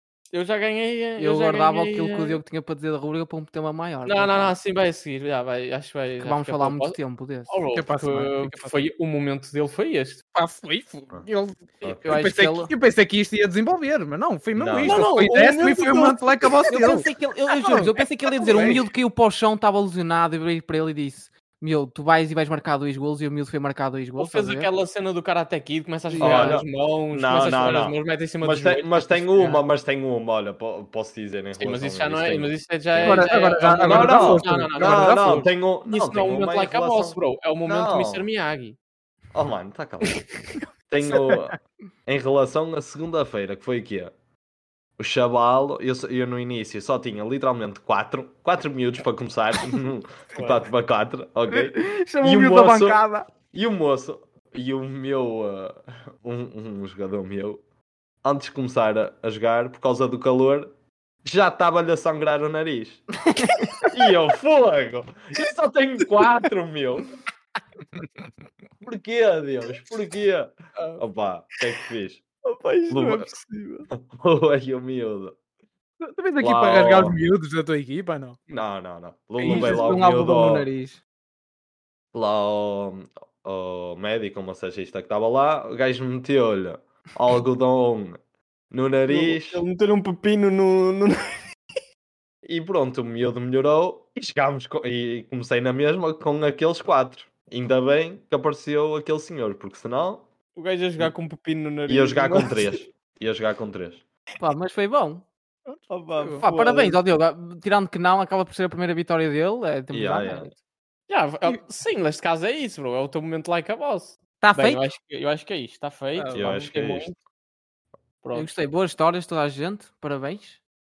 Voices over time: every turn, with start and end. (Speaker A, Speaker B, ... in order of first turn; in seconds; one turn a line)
Speaker A: 0.3-2.4
Speaker B: 1.2-4.5
Speaker A: 4.0-10.2
Speaker B: 6.2-7.6
Speaker C: 7.7-8.8
Speaker C: 10.3-17.1
Speaker D: 11.8-12.2
Speaker B: 12.0-12.7
Speaker D: 14.6-15.1
Speaker A: 14.8-16.5
Speaker B: 16.7-24.7
Speaker C: 17.6-17.9
Speaker C: 18.5-18.8
Speaker A: 24.2-29.3
Speaker B: 26.1-26.6
Speaker D: 26.2-38.3
Speaker A: 31.6-38.8
Speaker B: 33.0-35.4
Speaker C: 33.0-35.2
Speaker D: 39.3-40.2
Speaker D: 40.9-44.1
Speaker C: 41.1-41.5
Speaker D: 45.0-57.6
Speaker B: 51.5-53.3
Speaker D: 58.2-60.7
Speaker D: 61.2-63.0
Speaker B: 63.5-63.9
Speaker D: 63.8-67.1
Speaker C: 68.0-68.2
Speaker D: 68.8-72.2
Speaker A: 72.4-73.9
Speaker D: 72.9-73.3
Speaker D: 73.9-75.4
Speaker C: 76.0-78.4
Speaker D: 76.4-77.2
Speaker D: 78.5-80.7
Speaker B: 79.4-81.0
Speaker A: 79.4-79.7
Speaker D: 82.1-88.2
Speaker D: 88.7-89.6
Speaker A: 89.1-91.2
Speaker D: 92.4-100.2
Speaker A: 100.5-102.9
Speaker D: 101.9-104.0
Speaker B: 104.4-105.2
Speaker C: 105.7-106.4
Speaker A: 105.9-107.0
Speaker B: 106.4-110.5
Speaker D: 109.9-110.5
Speaker A: 111.1-117.2
Speaker B: 114.4-114.9
Speaker C: 116.1-116.5
Speaker D: 116.3-117.1
Speaker A: 118.2-118.5
Speaker B: 118.3-120.6